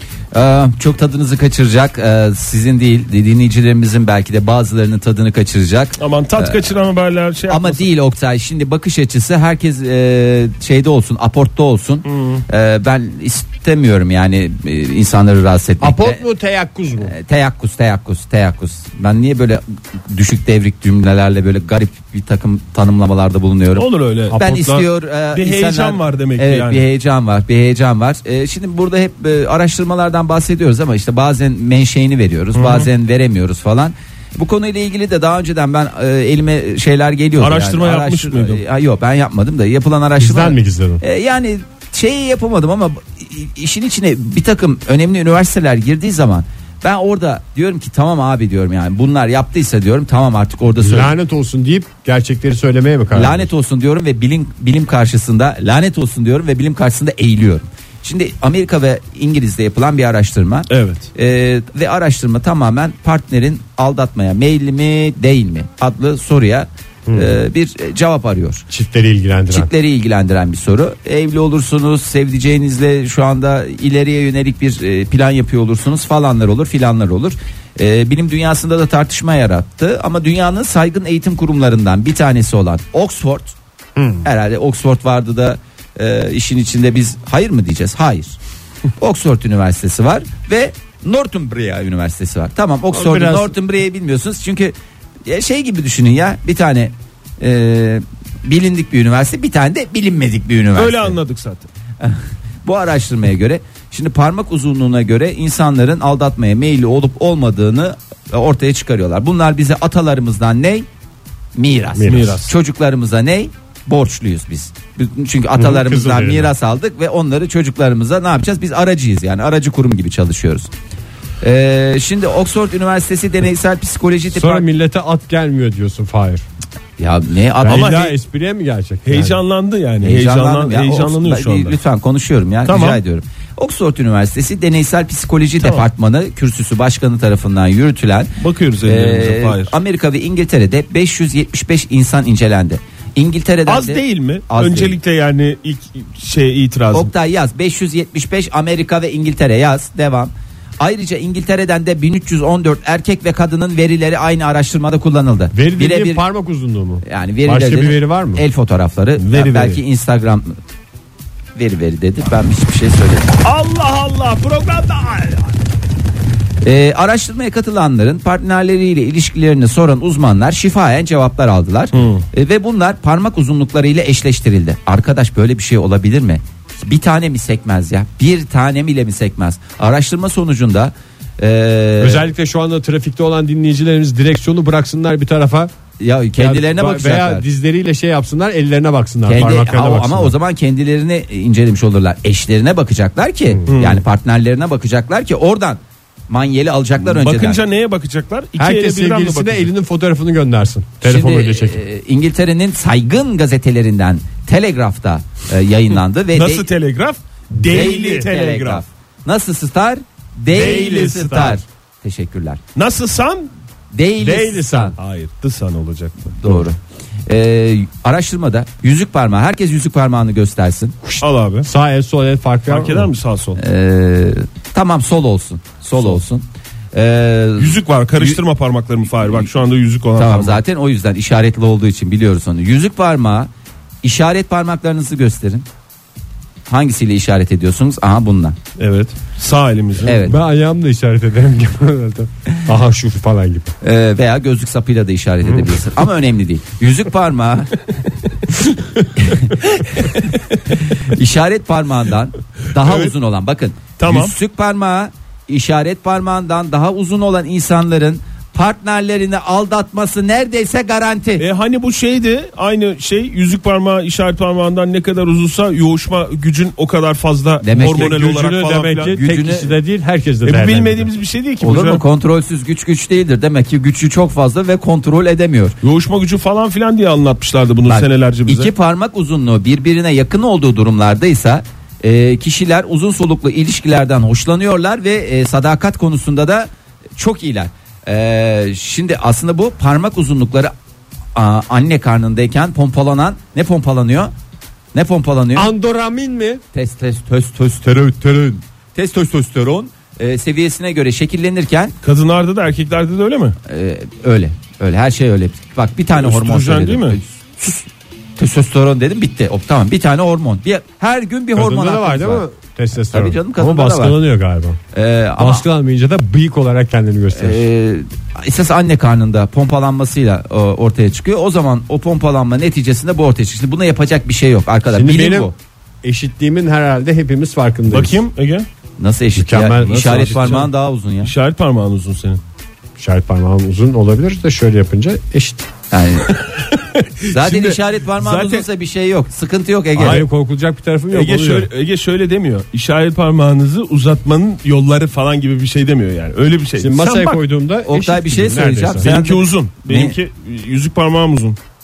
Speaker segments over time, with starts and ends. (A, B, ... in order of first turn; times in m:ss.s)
0:00.3-0:06.7 A
0:06.0-0:07.8 B
0:07.5-0:16.2 A
0:12.0-0:12.4 B
0:15.8-0:17.1 C
0:17.0-0:51.1 A
0:23.7-0:26.9 B
0:32.5-0:32.9 B
0:37.4-0:38.6 B
0:40.2-0:41.0 C
0:50.8-0:53.5 C
0:53.1-1:08.7 A
1:00.7-1:01.1 B
1:07.0-1:07.3 C
1:08.7-1:09.7 C
1:09.5-1:23.5 A
1:24.0-1:24.2 C
1:24.2-1:28.4 A
1:29.0-1:34.7 A
1:32.9-1:33.6 C
1:35.2-1:41.2 A
1:40.7-1:41.7 B
1:42.0-1:50.8 A
1:51.5-2:00.7 A
1:51.9-1:52.5 C
1:52.0-1:52.4 B
1:55.5-1:56.5 C
2:01.4-2:04.6 A
2:04.3-2:06.4 C
2:07.0-2:08.0 A
2:07.6-2:09.4 C
2:07.6-2:08.1 B
2:09.0-2:11.8 B
2:10.0-2:18.3 A
2:12.6-2:13.0 B
2:18.4-2:19.7 B
2:18.8-2:25.0 A
2:23.7-2:27.1 B
2:26.9-2:36.2 A
2:35.5-2:38.4 C
2:37.0-2:40.6 A
2:39.2-2:39.8 B
2:41.6-2:43.3 A
2:43.4-2:45.5 B
2:46.6-3:02.3 A
2:51.9-2:52.2 B
3:02.0-3:05.7 C
3:06.0-3:07.4 A
3:06.4-3:10.4 C
3:09.2-3:17.6 A
3:13.7-3:14.0 B
3:17.0-3:19.7 B
3:18.6-3:21.8 C
3:21.0-3:26.7 A
3:26.3-3:28.8 B
3:27.6-3:32.6 A
3:30.5-3:31.6 B
3:32.7-3:33.5 B
3:33.9-3:34.9 A
3:34.2-3:34.9 C
3:35.0-3:36.4 B
3:36.4-3:40.9 A
3:41.0-3:43.1 C
3:41.2-3:41.7 B
3:42.7-3:43.6 B
3:43.6-3:48.4 A
3:47.6-3:50.6 B
3:50.2-3:53.5 A
3:54.0-3:55.7 A
3:56.7-3:58.6 A
3:58.8-4:00.2 B
4:00.0-4:00.4 A
4:00.2-4:03.7 C
4:03.8-4:07.7 A
4:09.2-4:10.3 A
4:10.8-4:21.4 A
4:12.8-4:13.1 B
4:14.0-4:14.3 B
4:21.4-4:29.2 B
4:27.6-4:28.2 A
4:27.8-4:31.1 C
4:29.1-4:29.8 A
4:30.4-4:32.0 B
4:31.6-4:35.7 A
4:35.8-4:38.7 B
4:37.8-4:50.7 A
4:51.3-4:54.3 A
4:54.9-4:55.7 A
4:55.5-4:56.6 C
4:56.7-5:01.9 A
5:02.0-5:03.6 B
5:03.6-5:12.4 A
5:06.2-5:07.2 B
5:11.6-5:14.8 C
5:13.1-5:14.2 A
5:14.9-5:15.6 A
5:15.4-5:17.6 C
5:17.3-5:25.5 A
5:24.9-5:25.5 C
5:26.0-5:28.2 C
5:27.9-5:28.7 B
5:29.0-5:31.3 A
5:29.4-5:30.7 C
5:31.2-5:32.4 B
5:33.0-5:35.7 C
5:35.9-5:36.4 A
5:36.3-5:38.6 B
5:37.3-5:40.2 A
5:40.0-5:41.7 C
5:41.1-5:47.4 B
5:46.8-5:49.1 C
5:47.9-5:50.2 A
5:49.0-5:51.6 B